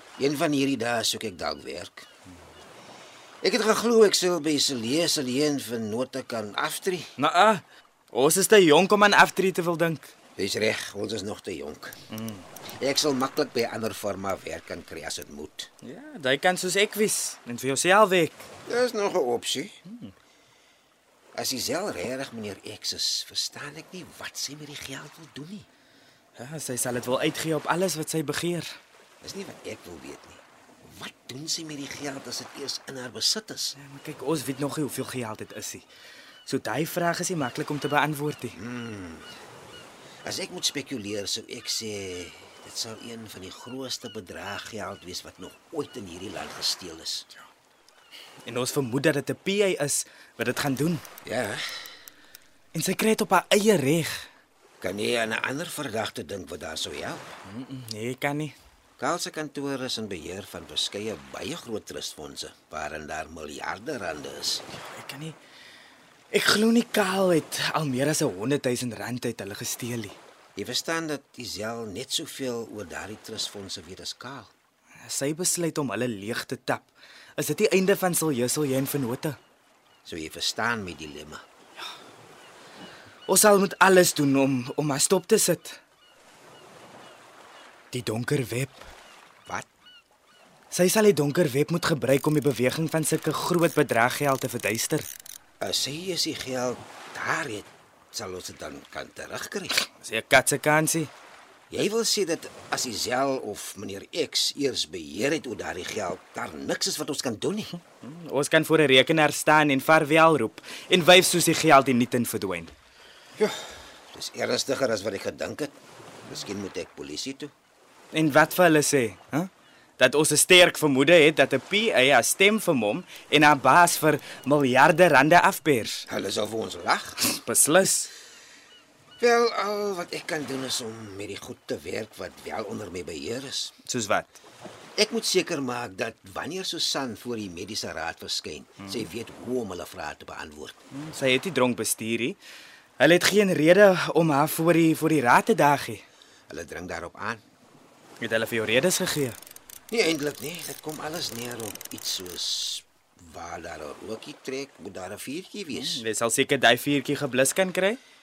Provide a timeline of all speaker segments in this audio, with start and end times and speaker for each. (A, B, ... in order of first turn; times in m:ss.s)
0:00.2-0:02.0 A
0:03.4-0:07.1 A
0:07.2-0:10.1 B
0:10.4-0:11.9 A
0:12.1-0:12.4 B
0:12.8-0:15.7 A
0:15.8-0:18.4 B
0:18.7-0:19.7 A
0:19.9-0:20.1 B
0:21.3-0:25.7 A
0:26.4-0:28.7 B
0:29.2-0:33.7 A
0:33.8-0:35.8 B
0:36.5-0:38.6 B
0:38.5-0:39.3 A
0:40.2-0:47.2 A
0:48.4-0:51.0 B
0:51.2-0:51.6 A
0:52.7-0:54.2 B
0:54.8-0:57.2 A
0:57.4-0:58.5 B
0:59.0-1:04.6 A
1:04.7-1:05.4 B
1:06.3-1:10.2 B
1:10.6-1:14.5 A
1:15.0-1:19.4 B
1:20.0-1:21.4 A
1:23.3-1:25.8 B
1:27.9-1:28.8 B
1:30.7-1:35.1 B
1:35.6-1:39.8 A
1:40.0-1:41.1 B
1:41.7-1:47.7 A
1:48.0-1:52.7 B
1:53.4-1:55.7 A
1:56.3-1:57.5 A
1:58.1-2:06.0 B
2:06.1-2:07.2 A
2:07.2-2:08.1 B
2:09.2-2:13.7 A
2:13.8-2:14.4 B
2:15.0-2:20.8 A
2:18.8-2:19.1 B
2:20.9-2:22.4 B
2:23.0-2:26.0 B
2:26.5-2:27.4 A
2:28.2-2:29.4 B
2:29.9-2:36.0 A
2:35.7-2:38.0 B